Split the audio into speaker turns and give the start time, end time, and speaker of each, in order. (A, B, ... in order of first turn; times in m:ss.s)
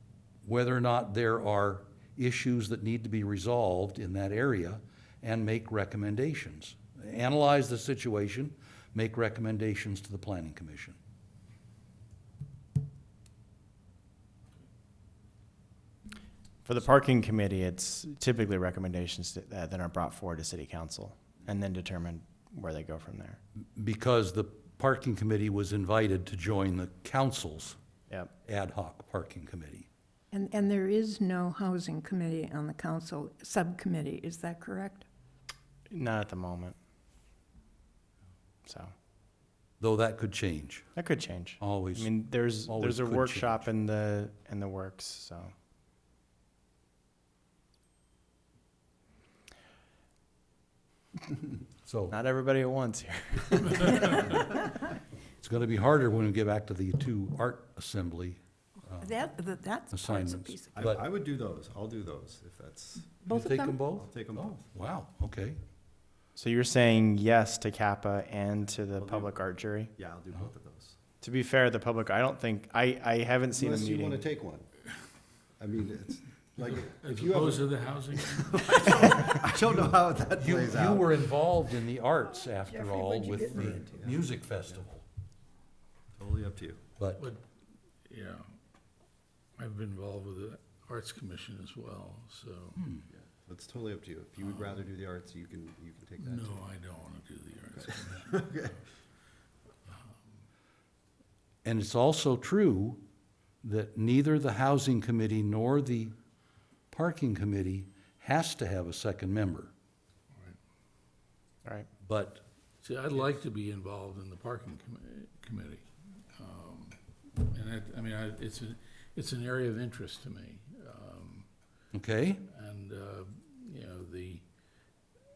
0:00.4-0:11.0 A
0:16.6-0:23.4 B
0:23.8-0:27.8 A
0:28.4-0:29.9 A
0:30.3-0:35.0 C
0:35.9-0:36.8 B
0:38.6-0:38.9 B
0:39.8-0:40.8 A
0:41.0-0:45.5 B
0:41.6-0:43.7 A
0:51.8-0:52.2 A
0:52.1-0:54.3 B
0:55.4-0:59.2 A
0:58.9-1:00.8 C
0:59.9-1:01.0 A
1:00.7-1:04.6 D
1:03.2-1:03.8 C
1:03.3-1:05.6 A
1:06.4-1:09.9 B
1:09.0-1:09.3 D
1:10.0-1:11.0 D
1:11.2-1:14.2 B
1:13.5-1:14.6 D
1:15.6-1:21.2 D
1:16.7-1:19.2 E
1:19.6-1:25.0 A
1:22.5-1:24.0 C
1:23.5-1:24.2 D
1:26.2-1:26.8 D
1:27.0-1:27.3 A
1:28.0-1:28.4 E
1:29.6-1:32.8 E
1:32.8-1:33.0 A
1:33.4-1:36.6 D
1:36.2-1:38.3 E
1:38.1-1:38.8 D
1:41.6-1:43.0 A
1:43.6-1:46.1 A
1:46.9-1:49.7 A
1:52.0-1:52.4 A
1:52.8-2:01.5 E
2:01.9-2:02.4 A
2:02.5-2:04.4 E